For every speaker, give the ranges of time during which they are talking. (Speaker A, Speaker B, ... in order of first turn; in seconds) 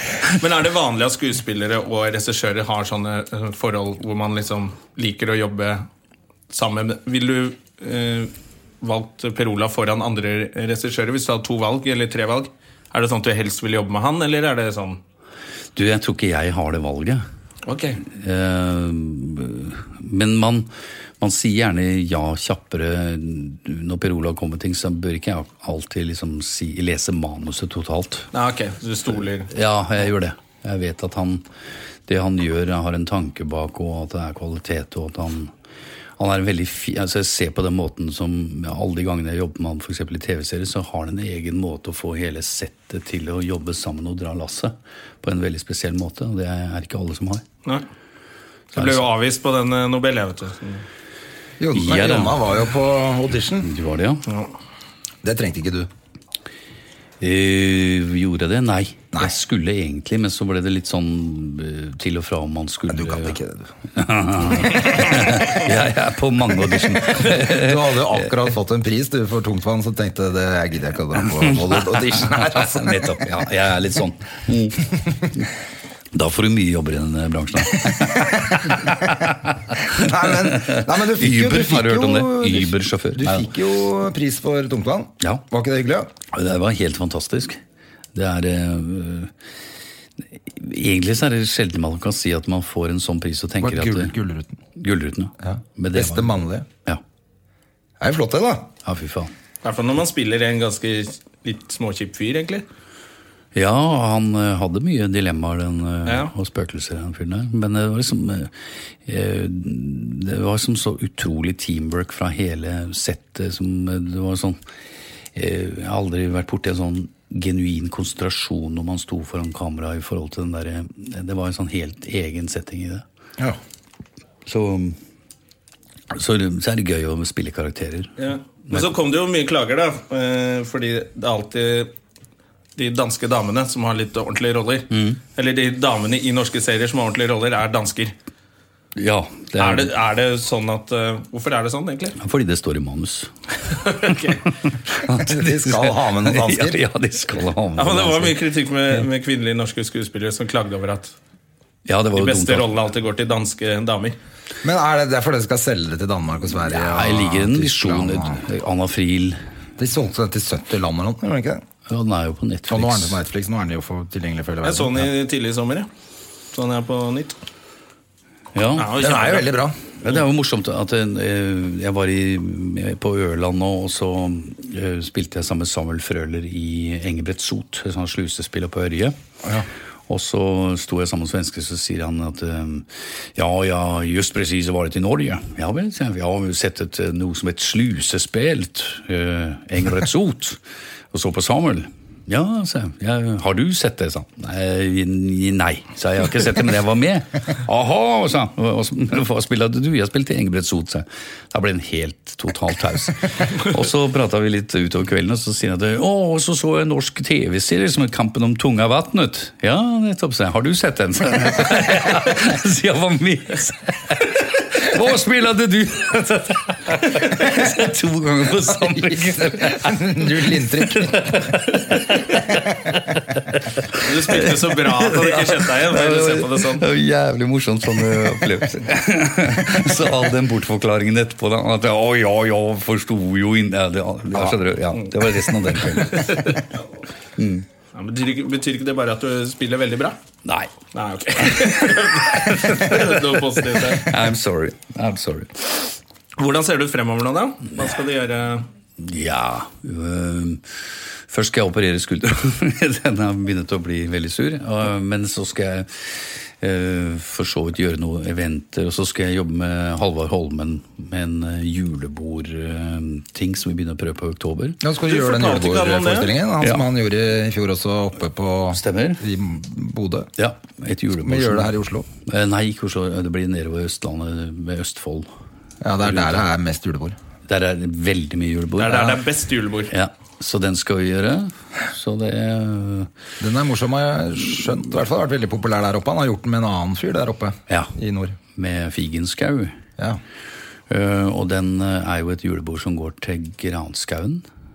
Speaker A: 0.3-5.8, 6.5-15.0, 17.6-18.0, 28.3-29.5, 48.7-50.8, 99.6-102.6, 106.0-106.3, 128.2-131.9, 132.8-138.1, 139.6-142.2, 143.8-144.4, 147.8-151.1, 152.1-154.2, 164.6-165.9, 166.5-167.4, 168.8-169.6, 224.0-226.8, 235.8-236.6, 237.9-240.2, 240.9-244.1, 246.4-248.7, 265.1-266.3, 278.8-279.9
Speaker B: 15.7-17.2, 18.0-28.3, 29.5-31.4, 32.1-35.5, 36.2-47.4, 48.7-49.1, 51.7-52.4, 53.6-54.2, 57.2-63.4, 63.9-68.3, 71.2-75.5, 76.1-83.5, 86.3-87.6, 88.1-89.3, 90.5-94.1, 94.7-97.0, 98.8-99.3, 103.5-108.5, 109.0-114.6, 115.3-123.0, 124.5-125.0, 126.1-128.1, 128.7-128.9, 134.9-135.2, 138.9-139.9, 142.2-143.3, 143.9-144.2, 144.9-148.4, 151.8-152.7, 156.7-159.4, 161.9-163.2, 168.5-168.9, 170.0-179.2, 180.1-190.6, 191.1-236.6, 237.4-237.7, 240.4-240.7, 241.4-245.9, 249.0-250.8, 251.3-264.8, 268.7-269.2, 270.4-271.7, 272.2-275.3, 276.0-276.4, 277.5-279.2, 279.9-283.1, 287.7-287.9, 288.5-289.7, 290.9-294.4
Speaker C: 51.6-53.7, 55.2-55.9, 62.9-63.7, 64.5-65.4, 67.1-73.3, 77.9-79.1, 79.8-86.1, 93.6-94.6, 95.4-96.7, 98.0-98.7, 145.1-146.8, 154.6-158.4, 159.8-161.6, 162.7-165.1, 169.0-169.8, 218.7-221.6, 264.8-270.3, 271.2-272.1, 275.8-277.2, 283.4-288.4